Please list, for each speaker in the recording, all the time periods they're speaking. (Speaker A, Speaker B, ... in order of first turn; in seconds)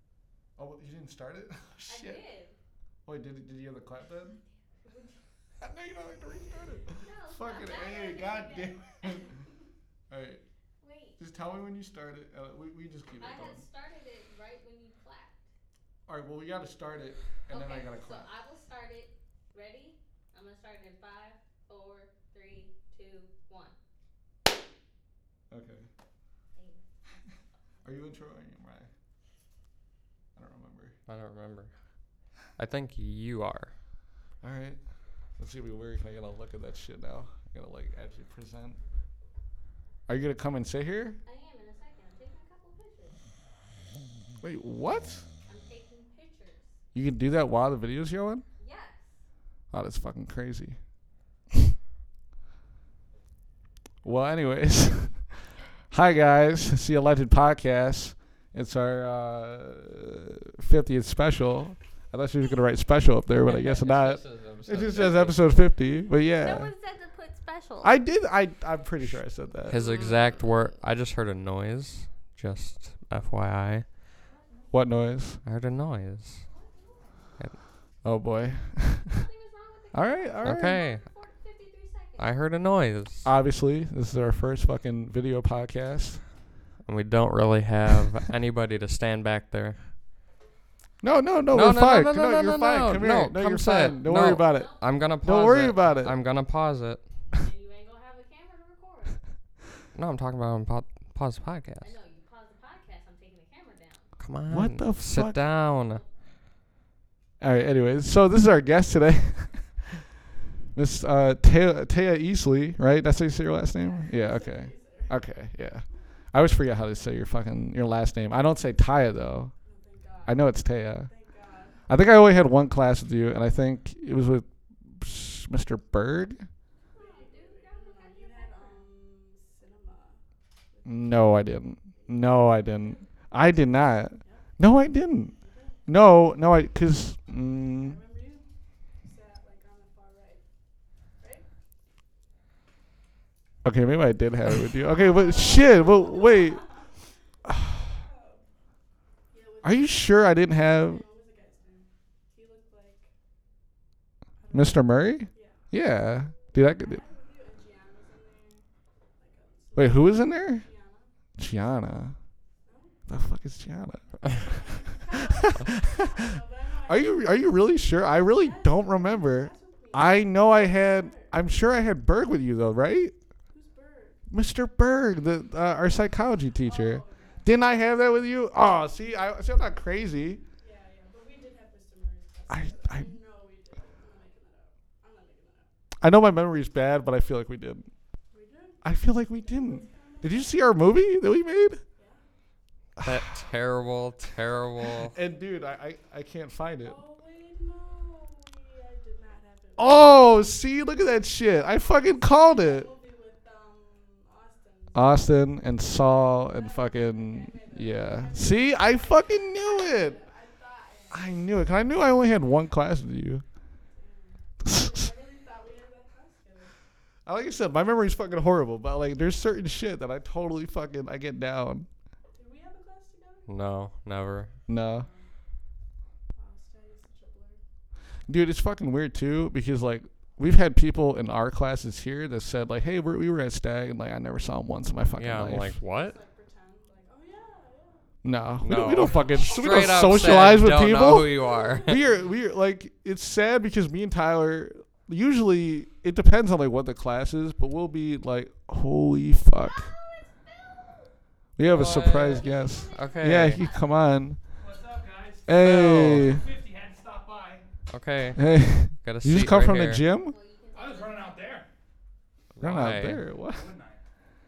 Speaker A: 0.6-2.2, 3.0-4.4, 5.6-9.4, 10.1-10.4, 11.2-13.6, 16.1-18.3, 25.5-25.9, 27.8-28.9, 30.4-31.0, 34.4-34.8, 35.4-38.8, 40.1-41.2, 44.4-45.3, 46.9-48.4, 49.7-50.8, 54.0-66.7, 67.8-69.9, 74.7-75.4, 78.0-79.3, 79.9-80.8, 83.2-86.2, 91.0-96.2, 104.5-105.4, 107.4-110.1, 110.7-119.5, 120.3-121.1, 121.9-126.5, 130.8-135.3, 135.9-138.0, 143.6-146.6, 147.5-147.9, 149.6-151.0, 154.5-157.0, 159.8-160.7, 161.4-162.2, 163.1-164.6, 165.2-166.0, 166.8-173.2, 174.3-180.4, 182.5-183.1, 186.0-187.9, 188.8-191.8, 193.0-193.4, 195.0-197.0, 199.8-202.9, 204.9-210.2, 211.1-213.4, 214.6-214.9, 217.3-221.9, 224.7-225.1, 228.3-235.8, 238.2-249.9, 251.6-254.4, 255.5-256.4, 258.4-260.4, 262.6-263.7
Speaker B: 1.9-2.6, 4.8-5.2, 6.9-9.3, 10.8-11.2, 13.2-15.4, 17.5-23.8, 26.6-26.8, 41.2-43.2, 45.5-46.7, 48.6-49.2, 66.4-68.0, 69.7-70.6, 74.2-74.7, 76.5-77.2, 79.1-82.3, 93.8-95.2, 97.3-99.2, 101.8-104.1, 105.7-106.1, 126.9-128.8, 249.6-251.1, 251.8-253.9, 260.3-261.4
Speaker C: 31.1-31.7, 32.6-33.7, 63.5-65.4, 69.7-73.9, 75.5-76.4, 80.4-81.0, 82.2-83.3, 86.8-89.9, 91.5-97.0, 100.0-102.0, 104.2-106.0, 193.0-195.2, 223.5-224.5, 235.2-236.2, 238.6-242.0, 251.7-253.6, 255.6-256.3, 257.9-260.1, 262.6-263.2
Speaker D: 113.8-115.2, 119.7-120.5, 121.1-121.8, 127.0-130.2, 130.7-131.3, 132.0-133.0, 135.4-135.8, 137.7-138.4, 139.0-140.4, 144.9-146.9, 147.9-148.4, 149.3-153.1, 154.4-155.6, 156.6-158.7, 159.2-161.1, 162.7-162.9, 164.5-171.3, 173.5-174.2, 176.6-177.5, 180.6-185.7, 188.3-190.7, 192.0-192.2, 196.8-200.0, 202.1-205.2, 206.5-211.3, 213.9-216.7, 222.3-223.5, 224.9-225.3, 226.4-227.6, 235.8-238.1, 241.4-241.9
Speaker E: 254.6-257.7, 260.7-261.7, 263.5-264.0